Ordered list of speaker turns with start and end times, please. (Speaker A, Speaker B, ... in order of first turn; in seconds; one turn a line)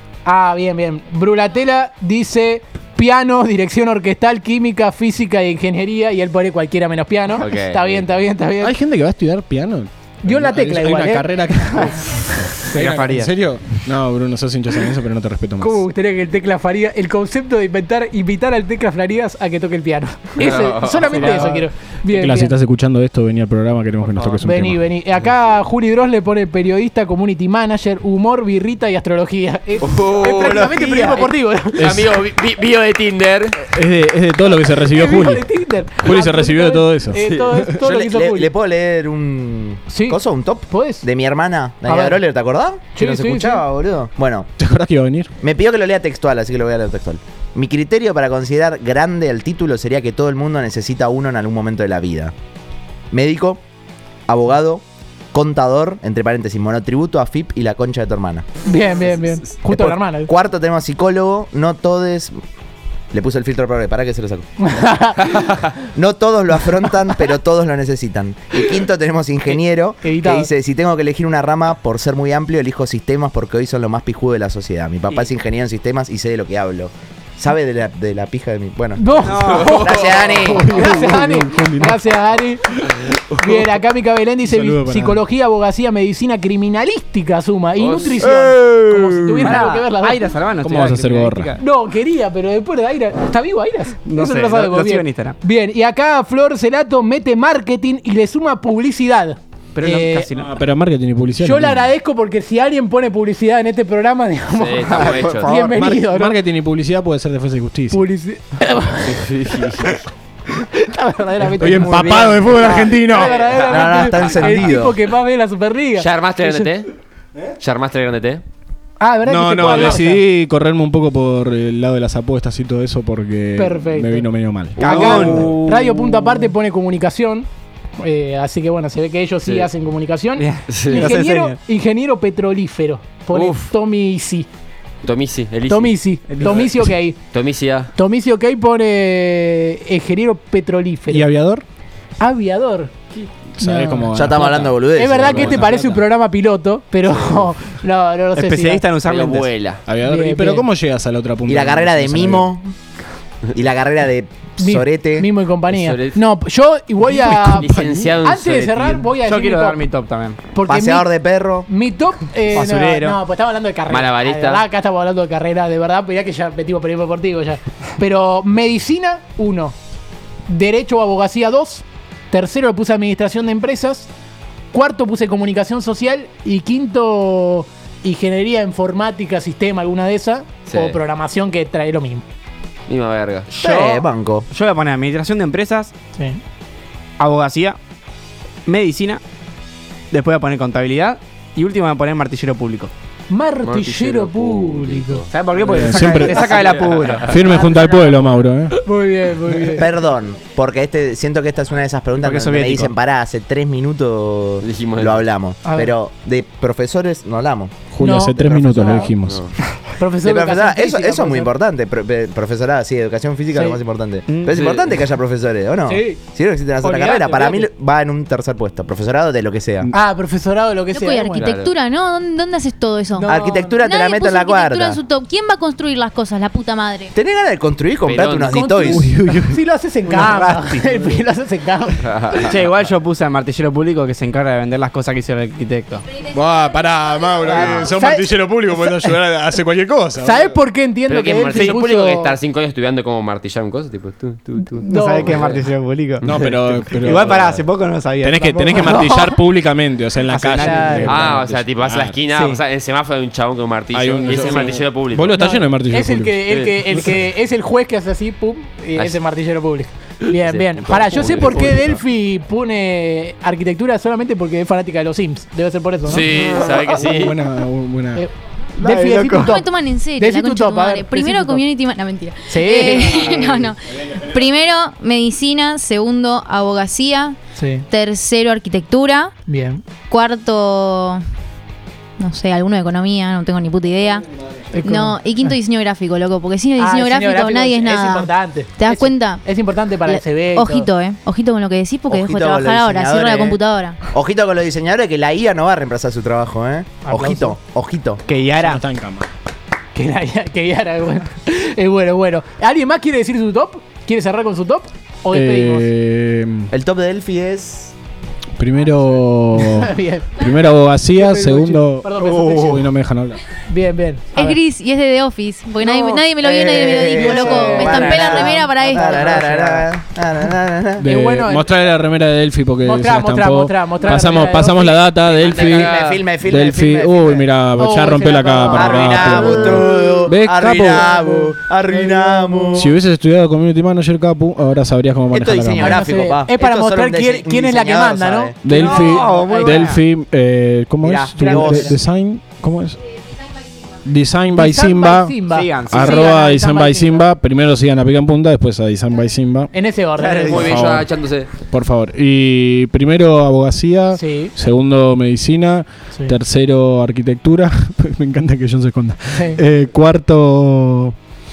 Speaker A: 0.2-8.7
Speaker B: 7.4-8.2
Speaker C: 8.6-15.8
Speaker A: 10.2-11.2
Speaker D: 12.6-13.3
Speaker A: 15.6-22.6
Speaker B: 20.4-21.5
Speaker D: 21.1-21.6
Speaker C: 22.1-24.8
Speaker A: 24.4-31.9
Speaker B: 29.8-30.7
Speaker D: 30.3-31.3
Speaker B: 31.8-33.6
Speaker C: 31.8-32.1
Speaker C: 33.6-35.5
Speaker A: 34.7-38.5
Speaker C: 36.0-37.6
Speaker B: 37.1-37.5
Speaker E: 37.8-44.5
Speaker A: 39.9-41.0
Speaker A: 41.8-42.2
Speaker A: 42.9-43.6
Speaker C: 44.6-45.3
Speaker E: 45.4-52.3
Speaker E: 53.1-53.6
Speaker E: 54.3-58.4
Speaker A: 58.6-60.3
Speaker E: 59.7-62.3
Speaker E: 63.1-64.5
Speaker A: 64.6-65.7
Speaker E: 65.9-80.7
Speaker A: 69.5-70.5
Speaker A: 79.0-90.2
Speaker D: 79.1-80.0
Speaker B: 79.3-80.5
Speaker C: 80.4-82.0
Speaker C: 84.5-85.2
Speaker B: 87.8-88.4
Speaker D: 88.2-91.6
Speaker C: 90.6-91.5
Speaker A: 91.6-100.3
Speaker D: 94.0-95.4
Speaker D: 99.7-100.5
Speaker C: 100.3-101.9
Speaker A: 101.4-106.3
Speaker B: 104.5-105.5
Speaker D: 104.8-105.8
Speaker C: 105.7-108.0
Speaker A: 107.9-109.2
Speaker B: 109.0-110.0
Speaker A: 110.5-116.7
Speaker C: 111.6-113.4
Speaker B: 112.6-113.5
Speaker E: 113.5-115.0
Speaker B: 114.1-114.4
Speaker B: 116.0-116.9
Speaker B: 117.6-118.4
Speaker A: 119.0-120.2
Speaker C: 119.2-125.6
Speaker A: 123.5-124.3
Speaker D: 124.8-126.3
Speaker A: 124.8-134.5
Speaker D: 130.4-131.6
Speaker B: 130.7-131.1
Speaker B: 133.3-133.7
Speaker B: 135.0-135.9
Speaker A: 135.7-137.2
Speaker D: 136.3-136.9
Speaker B: 137.3-137.9
Speaker A: 137.9-141.3
Speaker C: 141.1-141.6
Speaker A: 142.2-142.9
Speaker C: 143.6-145.8
Speaker A: 143.6-144.1
Speaker E: 144.1-145.7
Speaker A: 144.9-148.8
Speaker B: 147.0-147.5
Speaker D: 148.3-149.5
Speaker B: 149.0-149.8
Speaker C: 149.9-152.5
Speaker A: 150.0-150.7
Speaker E: 151.5-152.7
Speaker E: 153.5-155.3
Speaker A: 154.6-157.7
Speaker B: 155.7-156.2
Speaker C: 157.2-158.1
Speaker B: 157.3-159.1
Speaker A: 158.2-159.8
Speaker D: 159.2-160.4
Speaker A: 160.5-161.1
Speaker E: 160.6-161.7
Speaker A: 161.7-169.7
Speaker D: 162.5-163.2
Speaker B: 163.9-164.6
Speaker A: 170.5-174.1
Speaker A: 174.7-182.2
Speaker B: 180.7-181.0
Speaker B: 182.9-183.5
Speaker E: 183.6-184.5
Speaker A: 183.6-184.0
Speaker D: 184.5-185.9
Speaker D: 187.2-187.8
Speaker D: 188.7-189.2
Speaker D: 190.1-192.9
Speaker A: 193.3-195.2
Speaker B: 193.6-195.8
Speaker D: 195.3-197.4
Speaker C: 195.7-196.4
Speaker A: 195.9-196.7
Speaker B: 196.3-197.7
Speaker C: 197.2-198.8
Speaker A: 197.4-198.3
Speaker A: 198.8-199.8
Speaker E: 199.7-207.8
Speaker D: 202.2-202.9
Speaker B: 204.6-205.3
Speaker A: 205.6-205.9
Speaker C: 207.9-209.4
Speaker A: 208.0-209.1
Speaker E: 208.6-209.0
Speaker A: 209.9-211.5
Speaker E: 210.2-219.9
Speaker A: 213.5-213.8
Speaker D: 214.3-214.9
Speaker A: 215.9-216.2
Speaker D: 216.8-217.7
Speaker A: 219.9-221.5
Speaker F: 220.9-227.1
Speaker B: 221.4-221.7
Speaker A: 223.1-223.8
Speaker E: 223.2-225.0
Speaker E: 227.1-229.1
Speaker B: 228.0-228.6
Speaker A: 228.5-232.5
Speaker C: 228.8-229.6
Speaker D: 230.1-231.2
Speaker B: 232.0-232.8
Speaker D: 232.4-236.0
Speaker C: 236.2-240.6
Speaker D: 237.5-237.9
Speaker A: 237.7-239.1
Speaker A: 240.2-242.3
Speaker B: 241.1-245.5
Speaker D: 244.8-249.0
Speaker A: 244.8-245.4
Speaker C: 245.4-245.7
Speaker C: 246.2-252.2
Speaker A: 248.7-249.4
Speaker D: 250.2-251.2
Speaker A: 250.6-251.3
Speaker B: 251.1-255.4
Speaker D: 252.3-252.6
Speaker C: 253.9-257.0
Speaker A: 255.3-266.4
Speaker B: 256.5-256.8
Speaker B: 260.3-261.9
Speaker D: 261.4-261.8
Speaker B: 266.1-267.3
Speaker C: 266.1-266.4
Speaker C: 267.0-268.2
Speaker A: 268.1-271.6
Speaker D: 268.8-269.4
Speaker F: 269.2-277.4
Speaker A: 272.5-273.4
Speaker A: 277.5-277.9
Speaker F: 277.9-279.3
Speaker A: 279.5-279.8
Speaker F: 280.1-281.2
Speaker F: 282.2-284.3
Speaker A: 284.7-285.6
Speaker F: 284.8-289.4
Speaker A: 286.8-290.9
Speaker F: 290.0-294.0
Speaker E: 292.1-293.6
Speaker E: 294.1-298.2
Speaker A: 297.0-297.5
Speaker D: 298.2-298.8
Speaker C: 298.6-299.3
Speaker A: 299.9-305.9
Speaker C: 305.3-306.7
Speaker E: 306.7-307.9
Speaker C: 308.6-313.4
Speaker A: 309.6-310.4
Speaker A: 311.1-312.9
Speaker A: 313.7-314.6
Speaker F: 314.3-319.4
Speaker A: 315.8-316.2
Speaker E: 316.4-321.0
Speaker A: 317.1-319.9
Speaker C: 321.0-331.1
Speaker A: 321.0-321.7
Speaker A: 322.8-325.1
Speaker B: 325.2-326.2
Speaker E: 325.5-327.5
Speaker A: 327.8-330.1
Speaker E: 328.7-333.0
Speaker A: 330.8-332.8
Speaker C: 332.7-336.0
Speaker E: 335.3-338.6
Speaker A: 335.8-339.8
Speaker C: 338.6-343.0
Speaker D: 338.7-340.0
Speaker E: 341.0-342.0
Speaker A: 341.3-342.0
Speaker C: 344.0-349.7
Speaker A: 344.5-347.3
Speaker D: 345.4-346.3
Speaker A: 349.7-350.8
Speaker D: 350.1-350.7
Speaker B: 350.4-351.5
Speaker C: 350.5-351.1
Speaker C: 351.7-361.1
Speaker A: 354.1-354.5
Speaker A: 359.3-359.6